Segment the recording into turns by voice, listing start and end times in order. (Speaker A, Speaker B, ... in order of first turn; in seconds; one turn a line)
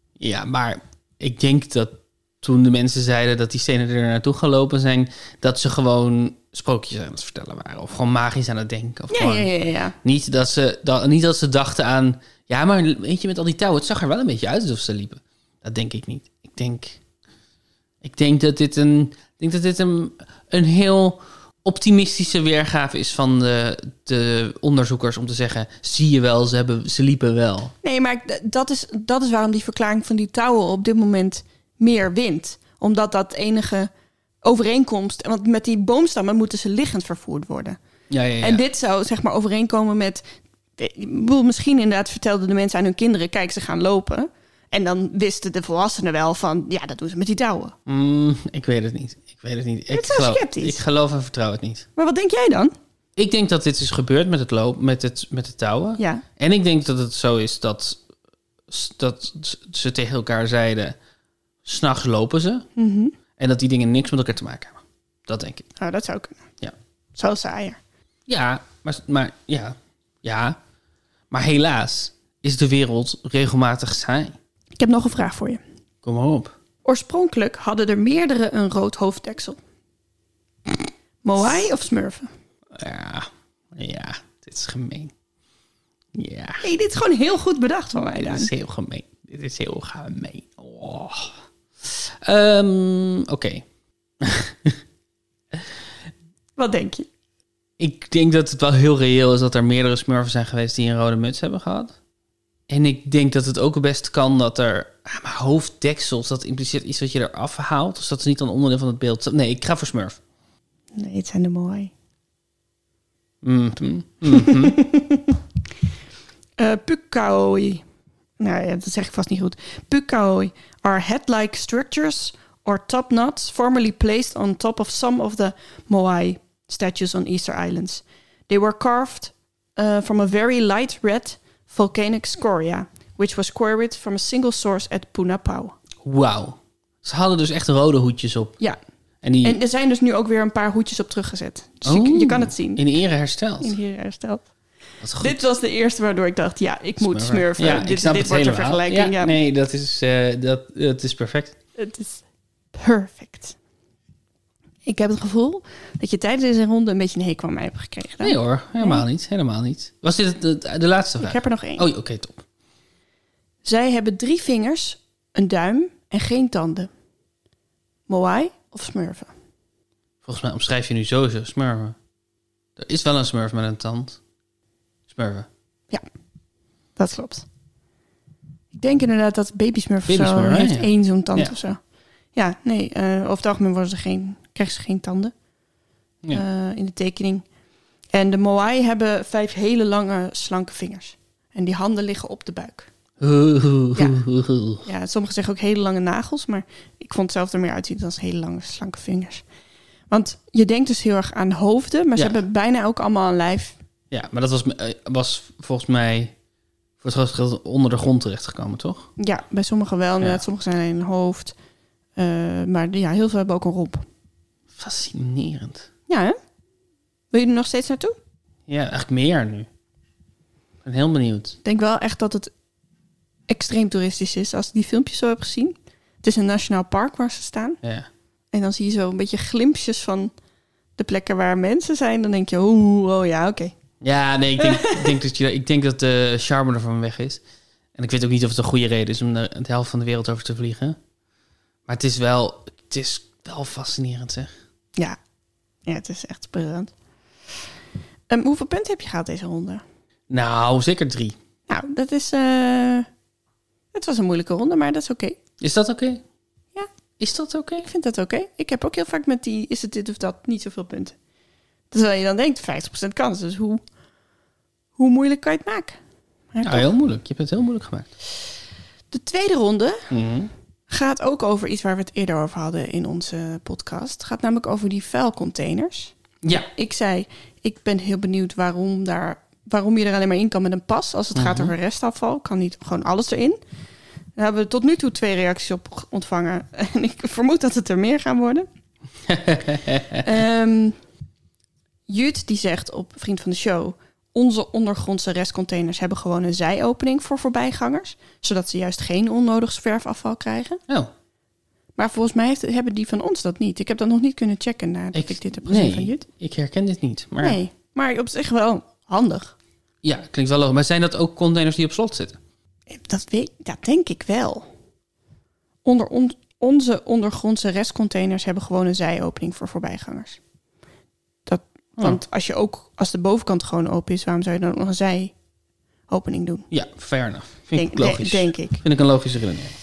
Speaker A: 0.2-17.0
Speaker B: 9.1-10.0
Speaker A: 18.0-27.7
Speaker B: 27.8-33.9
Speaker B: 34.4-37.8
Speaker A: 38.1-38.6
Speaker B: 38.4-40.2
Speaker B: 40.8-47.7
Speaker A: 47.9-51.9
Speaker B: 49.9-50.8
Speaker B: 52.0-52.7
Speaker A: 53.2-58.0
Speaker B: 56.0-56.2
Speaker A: 58.7-61.0
Speaker A: 61.6-62.7
Speaker B: 62.8-63.1
Speaker A: 63.4-65.7
Speaker B: 65.8-66.5
Speaker B: 67.2-67.8
Speaker A: 68.3-70.6
Speaker A: 71.3-74.4
Speaker B: 74.8-75.6
Speaker A: 76.0-76.5
Speaker B: 76.8-79.6
Speaker B: 81.2-82.3
Speaker A: 82.8-85.1
Speaker A: 86.2-86.7
Speaker B: 86.6-88.5
Speaker A: 88.2-91.3
Speaker A: 92.2-93.7
Speaker A: 94.2-94.8
Speaker B: 96.6-97.1
Speaker A: 97.8-102.0
Speaker A: 102.7-110.2
Speaker B: 111.0-111.9
Speaker A: 113.4-114.8
Speaker B: 114.3-115.4
Speaker B: 116.6-117.8
Speaker B: 118.4-135.8
Speaker A: 136.0-138.6
Speaker A: 139.2-139.6
Speaker B: 139.4-142.8
Speaker A: 141.8-143.8
Speaker B: 143.6-144.5
Speaker A: 145.0-145.5
Speaker B: 145.2-149.4
Speaker A: 147.0-151.6
Speaker B: 151.8-152.2
Speaker B: 152.7-153.6
Speaker B: 154.8-159.0
Speaker A: 158.2-162.4
Speaker B: 161.2-161.9
Speaker B: 163.6-166.9
Speaker B: 168.1-169.3
Speaker A: 170.2-172.0
Speaker A: 172.8-174.2
Speaker A: 175.1-175.5
Speaker B: 177.0-177.4
Speaker B: 178.7-181.8
Speaker A: 180.1-181.5
Speaker B: 182.3-185.3
Speaker B: 186.3-187.4
Speaker B: 188.1-192.9
Speaker A: 193.2-194.9
Speaker B: 194.8-199.4
Speaker B: 200.1-203.8
Speaker A: 204.1-206.3
Speaker A: 207.0-209.1
Speaker B: 209.2-211.6
Speaker B: 212.2-214.1
Speaker A: 214.8-215.9
Speaker B: 216.1-216.4
Speaker B: 217.3-218.2
Speaker A: 218.7-219.7
Speaker A: 220.8-221.6
Speaker B: 221.6-222.5
Speaker B: 223.5-227.8
Speaker A: 227.8-228.1
Speaker B: 228.5-230.3
Speaker B: 231.0-233.8
Speaker A: 234.0-237.4
Speaker B: 234.6-235.2
Speaker A: 238.0-241.0
Speaker A: 241.9-244.5
Speaker B: 245.8-246.9
Speaker B: 248.3-249.8
Speaker A: 250.3-251.4
Speaker B: 251.7-253.1
Speaker B: 253.9-255.4
Speaker A: 255.6-256.2
Speaker A: 257.2-257.9
Speaker B: 257.8-261.2
Speaker B: 261.9-263.8
Speaker B: 265.0-266.0
Speaker B: 266.5-266.9
Speaker A: 266.6-268.1
Speaker B: 269.1-270.1
Speaker A: 270.1-270.5
Speaker B: 270.9-283.6
Speaker A: 281.4-281.7
Speaker B: 284.4-288.7
Speaker A: 289.3-290.3
Speaker B: 290.2-291.0
Speaker B: 292.1-300.8
Speaker B: 302.0-306.2
Speaker A: 305.1-307.6
Speaker B: 307.4-309.6
Speaker A: 310.0-312.4
Speaker B: 312.9-314.7
Speaker B: 315.9-320.4
Speaker B: 321.5-325.3
Speaker B: 326.1-326.7
Speaker A: 326.7-329.8
Speaker B: 327.8-328.8